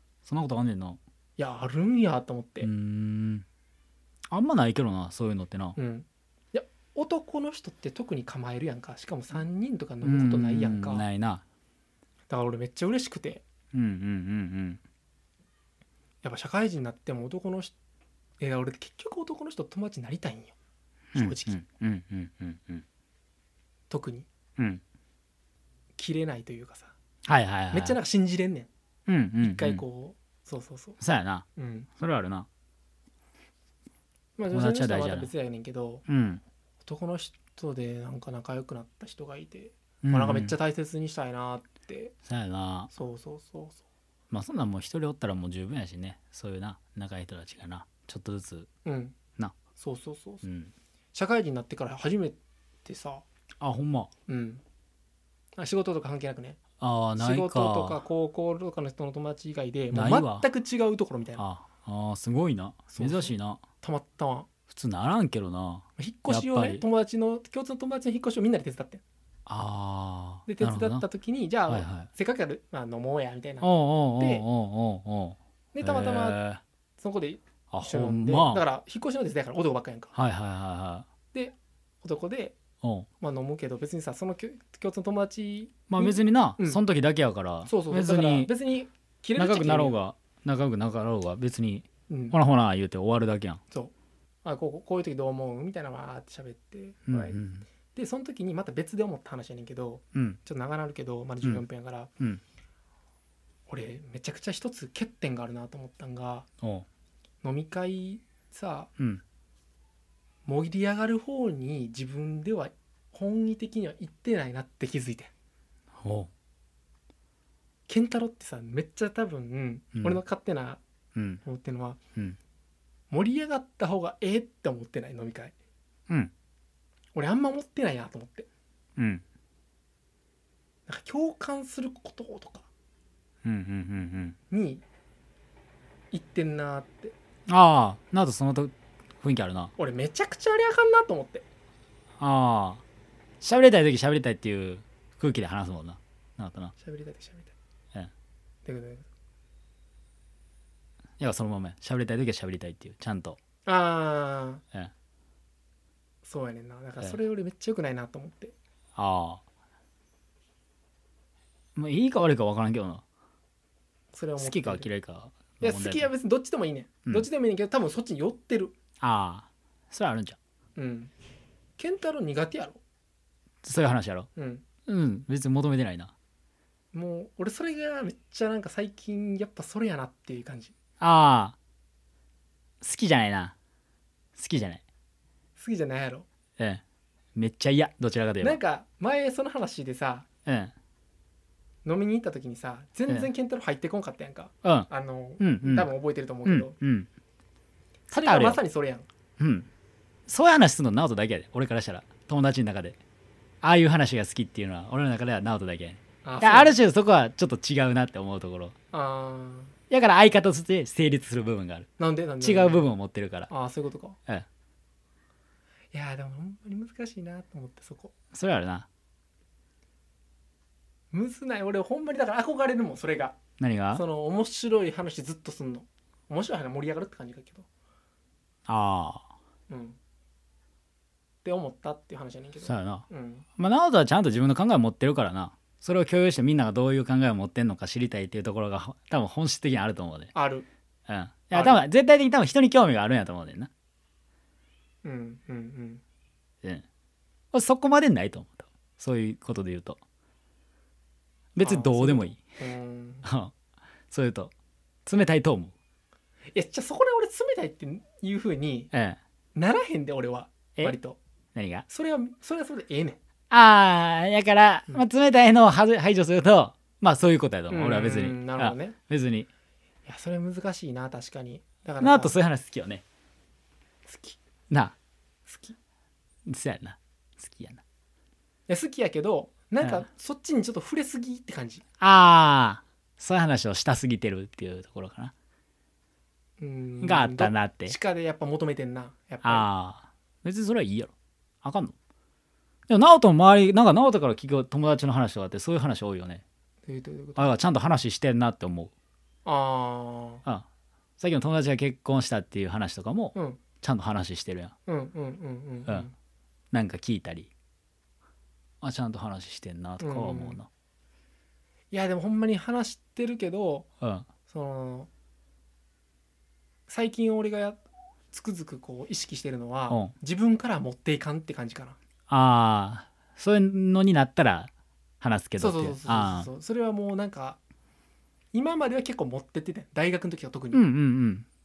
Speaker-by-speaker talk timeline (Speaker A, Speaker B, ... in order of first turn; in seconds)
Speaker A: 0.2-1.0, 2.6-3.5, 4.3-5.8, 10.0-11.4, 13.7-14.8, 21.1-22.8, 24.6-24.8, 27.2-28.0, 29.1-29.8, 31.0-31.4, 32.0-32.5, 34.5-35.3, 36.1-36.4, 40.0-40.5, 42.2-42.9, 44.3-48.7, 50.4-50.7, 53.6-54.1, 56.8-58.0, 59.9-60.5, 61.4-63.7, 64.7-66.8, 69.5-71.0, 71.7-72.1, 73.6-76.6, 77.7-78.6, 80.1-81.1, 82.8-83.1, 85.9-88.5, 89.4-93.6, 97.0-97.7, 100.1-100.4, 106.6-106.9, 109.0-109.2, 115.9-116.3, 119.9-120.2, 121.1-121.4, 129.0-129.2, 133.4-134.4, 137.5-139.7, 142.2-142.8, 143.4-146.7, 151.2-153.4, 158.9-159.4, 161.7-163.0, 164.4-166.1, 169.0-170.4, 173.6-174.3, 174.8-176.1, 181.0-181.6, 182.8-183.5, 184.3-184.8, 186.6-186.8, 187.3-188.6, 190.4-190.7, 194.6-194.9, 195.4-195.9, 196.4-197.1, 198.1-198.6, 199.4-199.7, 200.3-203.0, 203.6-208.8, 209.9-211.9, 212.4-213.5, 218.3-218.9, 223.6-224.0, 228.7-229.3, 232.6-240.3, 241.1-243.7, 247.5-250.0, 251.6-252.4, 253.2-253.5, 254.1-254.5, 255.1-255.7, 258.9-259.2, 261.5-261.9, 263.5-269.5, 272.0-273.0, 274.7-274.9, 276.4-277.8, 282.0-285.3, 287.0-287.9, 289.4-291.9, 292.9-296.4, 297.4-298.9, 301.2-304.7, 306.7-307.5, 308.8-310.7, 314.0-314.3, 319.9-320.1, 322.3-326.5, 330.7-331.4
Speaker B: 1.4-2.7, 5.8-11.0, 12.3-13.4, 16.2-17.7, 18.4-20.5, 21.1-21.6, 23.9-24.3, 25.9-26.9, 27.7-28.7, 29.4-31.0, 31.5-31.9, 34.4-36.0, 36.8-42.1, 42.9-43.8, 48.8-50.4, 51.1-53.2, 54.3-54.6, 55.6-61.4, 62.9-64.5, 66.0-69.0, 70.5-74.4, 75.7-76.4, 77.0-80.1, 81.3-82.6, 83.2-86.9, 87.7-90.0, 92.1-92.3, 94.4-97.4, 97.9-102.1, 103.7-106.5, 107.4-108.9, 110.5-115.3, 117.9-120.8, 121.4-122.0, 123.1-125.5, 127.1-128.5, 130.9-132.7, 134.5-134.8, 136.1-137.1, 139.8-141.4, 146.8-147.5, 148.6-149.1, 153.7-154.6, 156.2-158.5, 164.1-164.9, 165.6-168.7, 170.8-171.1, 171.8-172.8, 174.3-174.7, 176.9-180.8, 185.6-186.2, 188.4-190.3, 191.8-196.8, 198.1-199.1, 206.2-206.8, 208.9-209.8, 212.0-212.9, 213.5-214.2, 215.9-218.1, 221.1-227.7, 229.7-230.0, 231.4-233.5, 240.3-240.7, 241.5-241.8, 245.0-246.0, 251.6-253.3, 256.5-258.9, 259.5-261.2, 261.9-263.2, 267.7-269.0, 270.1-272.4, 274.1-274.4, 275.5-275.8, 278.7-281.8, 286.6-289.7, 296.9-297.6, 299.4-300.4, 303.3-303.7, 304.9-306.1, 310.0-310.6, 311.9-313.9, 314.5-315.1, 316.9-322.0, 325.6-327.6, 328.5-330.9